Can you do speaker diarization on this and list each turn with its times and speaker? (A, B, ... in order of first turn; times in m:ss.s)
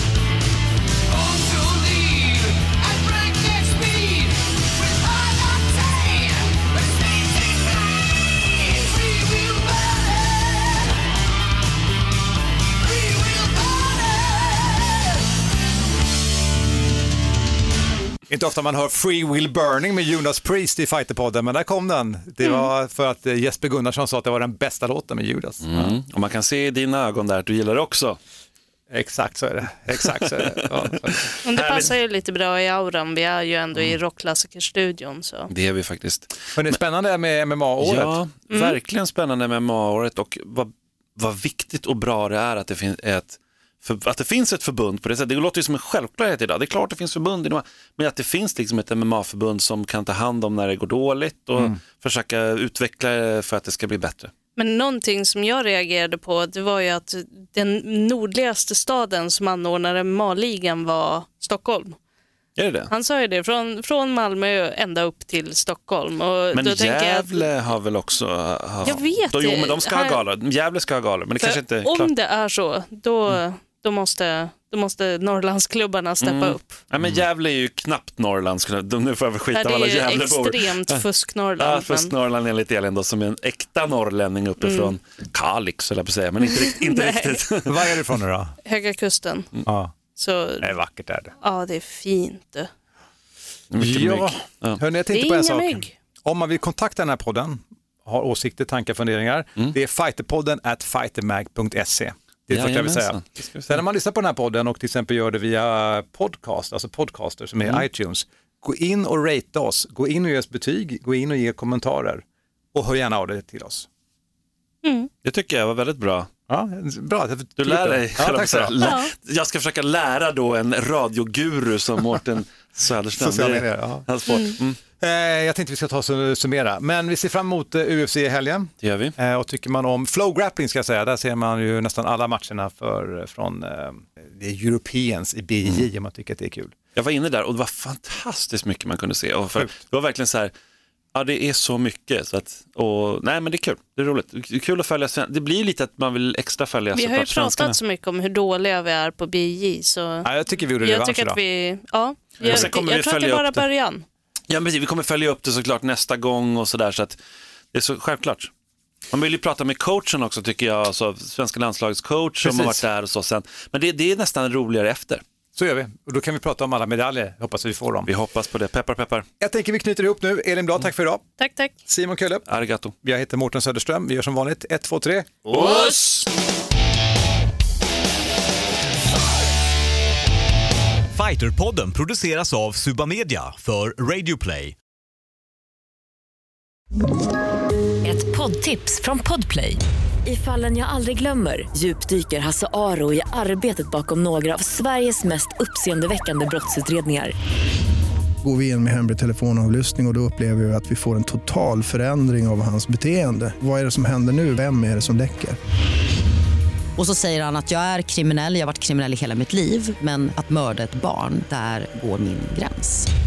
0:01.1-0:10.9 A
0:12.8-0:15.2 A
0:18.3-0:25.9 B
0:25.6-0:28.2 C
0:28.9-0:31.3 B
0:31.3-0:31.9 C
0:31.4-0:35.5 D
0:35.5-0:36.7 C
0:36.6-0:38.2 B
0:37.8-0:54.3 C
0:38.5-0:38.8 D
0:54.6-1:02.0 D
1:02.6-1:02.9 C
1:02.9-1:07.4 D
1:06.5-1:12.1 C
1:08.8-1:10.2 D
1:11.4-1:16.8 D
1:16.2-1:21.0 C
1:19.5-1:22.1 D
1:21.6-1:27.9 C
1:24.6-1:24.9 D
1:26.5-1:27.4 D
1:27.6-1:28.6 B
1:28.6-1:29.5 D
1:29.6-1:29.9 B
1:30.2-1:30.7 D
1:30.6-1:31.3 B
1:31.4-1:32.7 D
1:33.7-1:34.8 C
1:33.8-1:53.9 B
1:35.1-1:35.9 D
1:42.5-1:43.8 C
1:54.8-1:55.1 D
1:55.2-1:56.3 C
1:56.5-1:58.9 B
1:57.6-2:04.8 C
1:58.8-1:59.1 D
2:03.2-2:04.0 B
2:04.3-2:04.6 D
2:05.0-2:16.7 B
2:08.8-2:09.2 C
2:16.9-2:20.5 C
2:21.1-2:27.8 C
2:26.9-2:30.3 D
2:30.2-2:31.4 B
2:30.8-2:34.0 D
2:32.4-2:33.6 C
2:34.5-2:37.2 C
2:37.7-2:38.5 C
2:39.1-2:45.2 C
2:42.4-2:42.8 B
2:45.6-2:48.1 B
2:48.0-2:49.3 C
2:49.4-2:51.2 B
2:51.4-2:51.7 D
2:51.9-2:52.4 B
2:52.5-2:52.9 C
2:53.0-2:55.4 B
2:55.4-2:56.2 C
2:55.5-2:56.0 D
3:01.1-3:04.7 A
3:08.0-3:09.8 E
3:10.2-3:17.3 F
3:18.4-3:25.6 G
3:27.0-3:33.1 E